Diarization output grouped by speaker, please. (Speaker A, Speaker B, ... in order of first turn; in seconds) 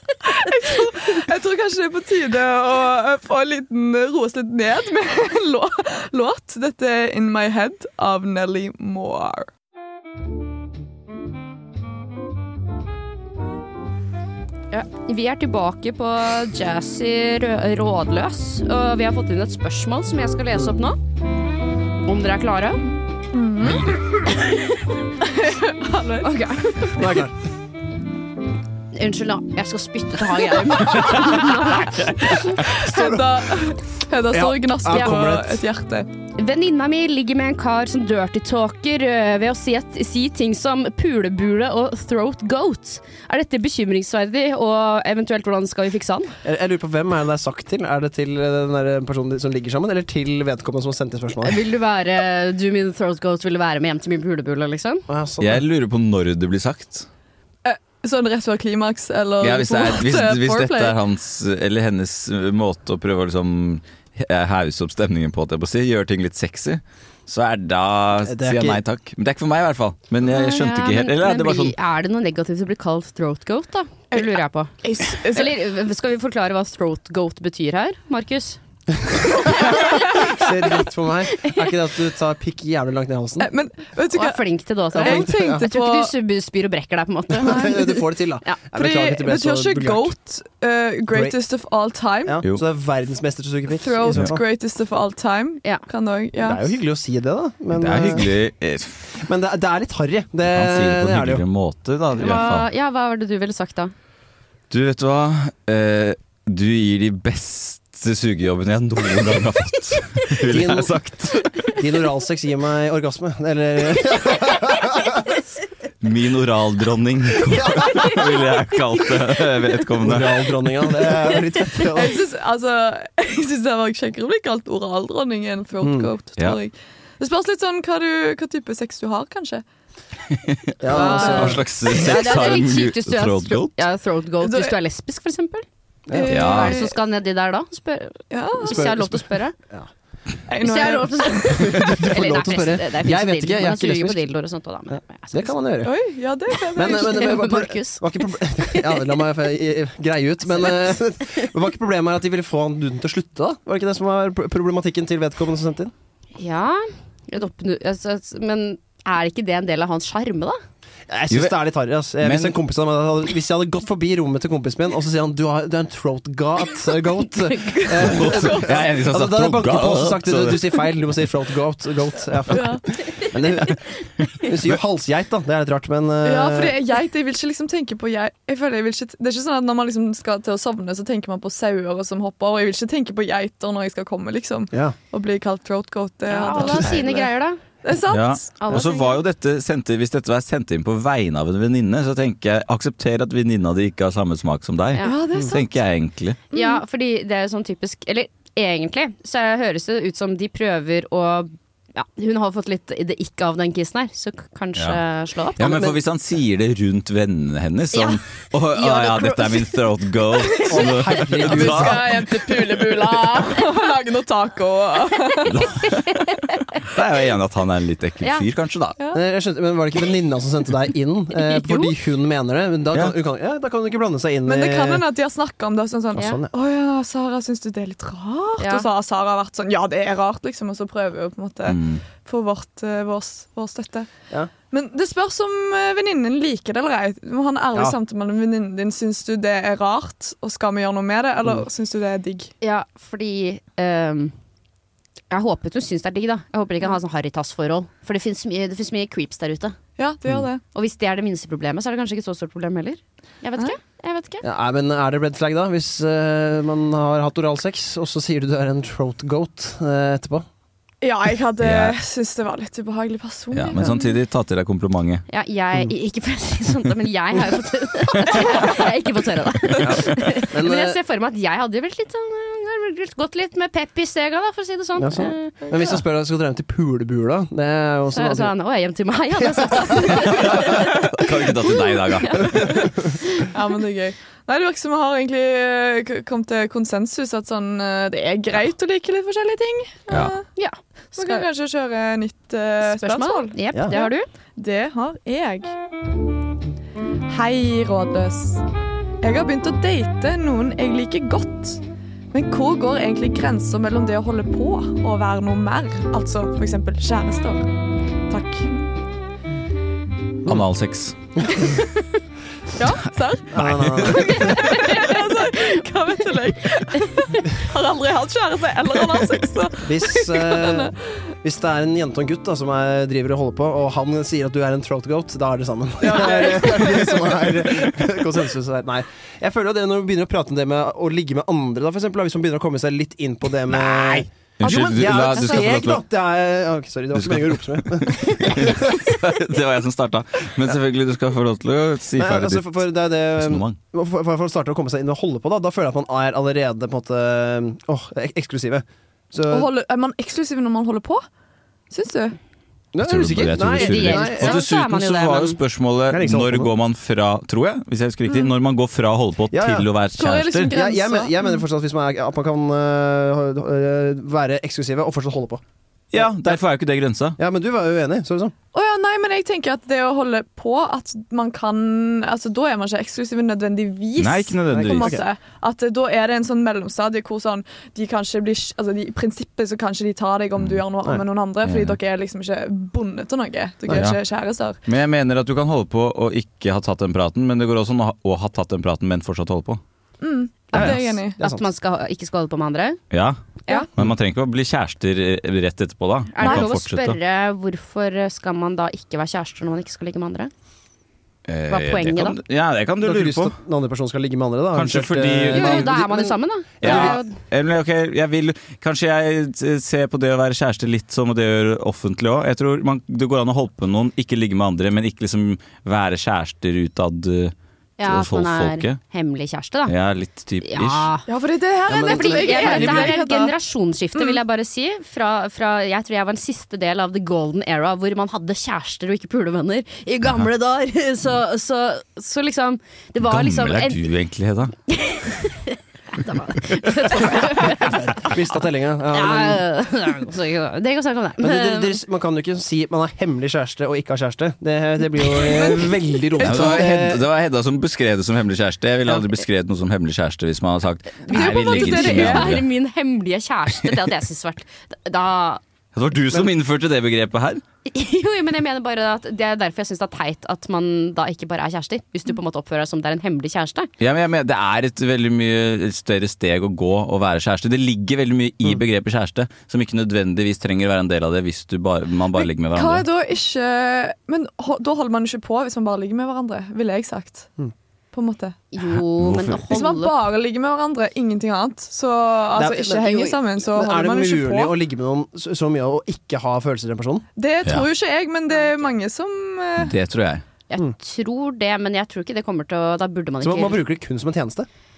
Speaker A: 0.3-9.5, 23.3-24.4, 25.1-26.3, 30.8-31.7, 32.3-36.1, 57.6-61.0, 74.1-75.5, 83.4-86.1, 88.8-92.4, 93.7-96.6, 121.9-129.6, 130.9-131.6, 134.4-134.8, 136.1-137.0, 138.3-138.9, 140.5-141.7, 145.8-147.3, 168.3-168.7, 172.5-172.8, 176.2-187.3, 187.8-188.4, 195.0-195.7, 196.5-196.8, 210.6-215.9, 224.5-234.1, 234.7-242.5, 250.0-250.6, 261.0-264.0, 283.5-290.4, 291.2-295.7, 297.3-298.6, 299.2-301.8, 302.3-307.7, 308.3-308.8, 311.6-311.9, 312.7-320.9, 326.0-327.4, 349.5-351.2, 351.9-352.4, 360.2-361.6, 368.7-384.8, 390.2-391.4, 421.3-423.6, 445.3-446.8, 451.3-452.6, 472.4-477.5, 478.1-478.6, 479.7-484.7, 487.4-489.9
Speaker B: 14.7-21.0, 22.1-22.9, 26.2-27.1, 28.9-32.5, 36.4-46.4, 51.4-55.1, 70.3-78.6, 79.5-80.5, 84.1-88.6, 102.2-103.9, 130.9-135.7, 136.3-139.6, 140.6-145.6, 146.7-149.1, 156.4-160.6, 167.5-168.3, 186.3-187.6, 188.6-189.2, 196.5-205.8, 207.9-208.2, 208.7-209.8, 221.5-221.9, 228.6-228.9, 242.6-244.3, 245.3-249.8, 250.7-254.5, 265.3-275.7, 278.1-283.5, 290.6-291.5, 292.8-294.3, 353.7-355.6, 390.7-393.0, 396.4-400.5, 401.7-402.4, 405.5-407.3, 418.0-419.9, 420.6-421.3, 422.0-434.0, 434.9-438.4, 439.1-442.0, 451.3-455.6, 457.9-463.9, 478.7-480.1, 488.6-488.9, 490.7-493.8
Speaker C: 26.9-27.3, 32.7-33.4, 34.3-35.6, 46.4-51.6, 55.1-55.6, 68.2-68.8, 79.3-83.5, 85.0-85.7, 87.3-90.2, 91.1-91.4, 92.3-94.4, 96.4-98.3, 99.2-101.4, 110.5-111.0, 111.7-115.3, 117.5-118.1, 120.0-122.2, 125.8-126.1, 130.8-131.7, 136.1-136.5, 138.7-139.9, 141.5-144.2, 144.9-145.9, 146.8-155.9, 161.1-176.8, 186.7-186.9, 205.6-206.0, 210.7-212.2, 219.1-225.1, 226.2-226.5, 254.4-260.5, 269.8-271.0, 275.0-278.5, 279.4-280.5, 293.7-294.0, 311.4-311.6, 313.5-314.8, 319.8-339.1, 342.2-349.7, 352.9-354.6, 356.1-356.7, 359.5-359.9, 360.7-365.6, 366.1-366.6, 367.4-368.5, 374.7-375.2, 390.7-391.6, 403.0-407.2, 421.9-423.2, 437.9-439.6, 441.4-447.2, 482.6-487.3, 493.4-494.7
Speaker D: 55.4-57.1, 59.4-71.7, 97.8-99.2, 100.5-102.7, 104.7-111.6, 116.0-120.5, 130.3-133.7, 136.3-136.8, 161.3-161.6, 162.2-162.6, 168.0-170.8, 188.1-196.4, 205.6-212.9, 215.5-216.1, 216.8-219.0, 231.7-232.0, 261.6-262.0, 263.5-265.2, 280.2-282.7, 290.1-290.4, 310.5-311.1, 313.6-314.4, 333.8-336.0, 337.1-342.8, 343.4-343.8, 353.0-360.7, 366.1-367.4, 374.2-375.2, 381.6-382.0, 383.9-384.2, 384.9-389.8, 393.1-393.4, 394.0-397.2, 401.5-403.6, 404.8-406.0, 406.8-419.0, 419.9-421.1, 433.2-434.7, 446.4-452.7, 455.9-457.6, 464.0-473.1, 478.9-479.6, 489.8-490.4